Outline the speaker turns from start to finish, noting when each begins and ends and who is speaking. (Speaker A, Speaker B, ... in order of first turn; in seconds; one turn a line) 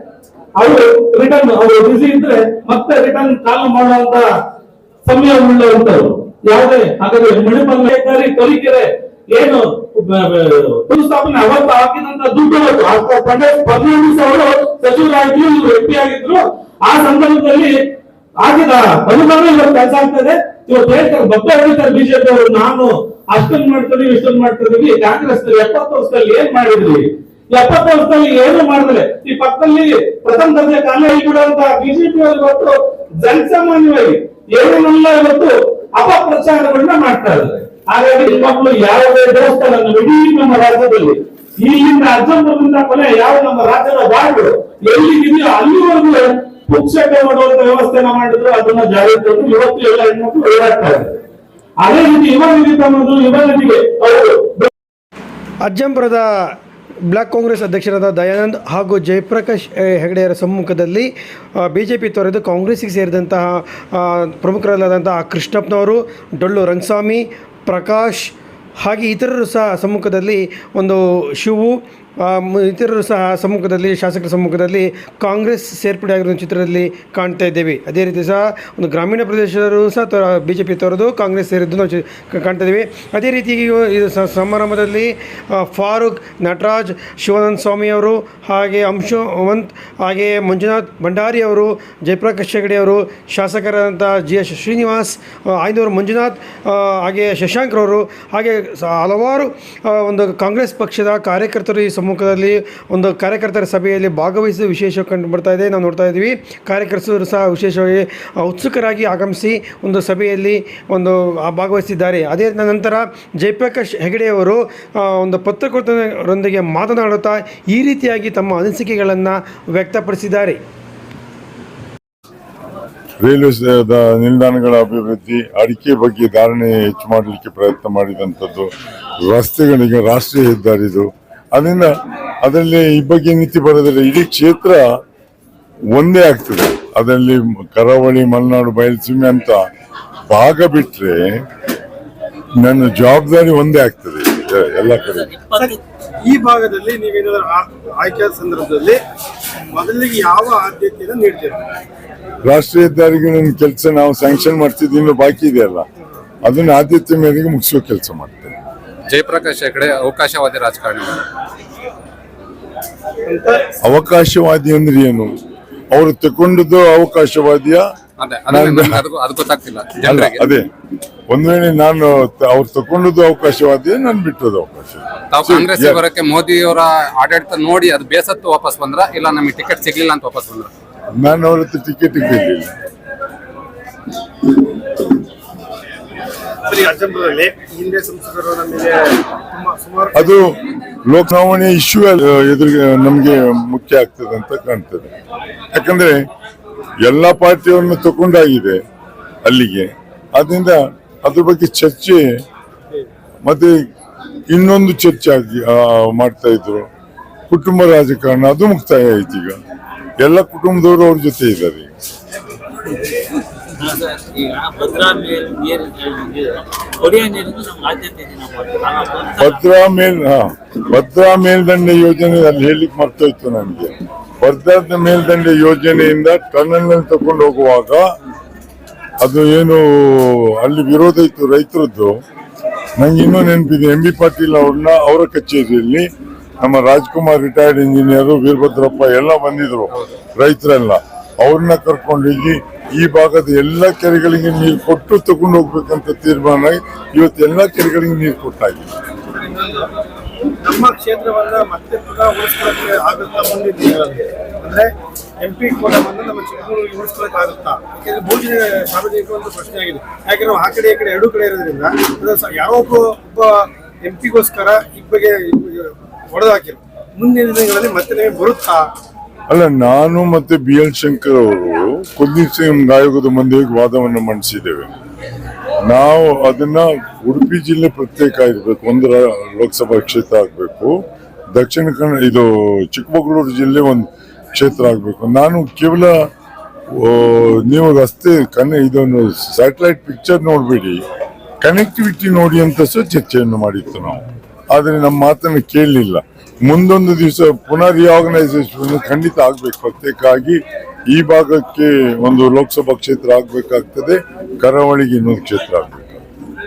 Speaker A: 0.6-4.3
Speaker A: 5.1-17.8
Speaker A: 18.4-51.1
Speaker A: 51.8-54.7
Speaker B: 55.6-56.5
Speaker B: 57.1-120.6
Speaker C: 123.2-135.0
Speaker C: 135.9-139.6
Speaker C: 140.3-141.4
Speaker C: 142.6-145.4
Speaker D: 145.6-149.0
Speaker D: 149.7-151.6
Speaker C: 152.5-155.9
Speaker C: 156.4-158.6
Speaker E: 159.1-161.2
Speaker D: 163.3-163.6
Speaker C: 163.8-165.3
Speaker C: 165.9-167.9
Speaker E: 168.2-170.5
Speaker C: 168.5-169.0
Speaker C: 170.0-170.7
Speaker C: 171.3-176.0
Speaker E: 175.3-180.7
Speaker C: 181.2-182.7
Speaker D: 186.7-190.3
Speaker C: 190.1-190.4
Speaker C: 191.1-195.1
Speaker C: 195.7-196.2
Speaker C: 197.0-198.8
Speaker C: 199.4-202.2
Speaker C: 203.4-203.7
Speaker C: 204.5-206.9
Speaker C: 207.5-209.6
Speaker C: 210.2-211.9
Speaker F: 213.8-219.5
Speaker C: 219.4-228.1
Speaker C: 229.2-232.1
Speaker C: 233.0-236.1
Speaker C: 236.6-248.9
Speaker D: 249.3-249.9
Speaker D: 250.6-254.9
Speaker D: 255.4-268.9
Speaker C: 269.5-274.9
Speaker C: 275.9-286.2
Speaker C: 286.9-291.0
Speaker C: 291.6-306.2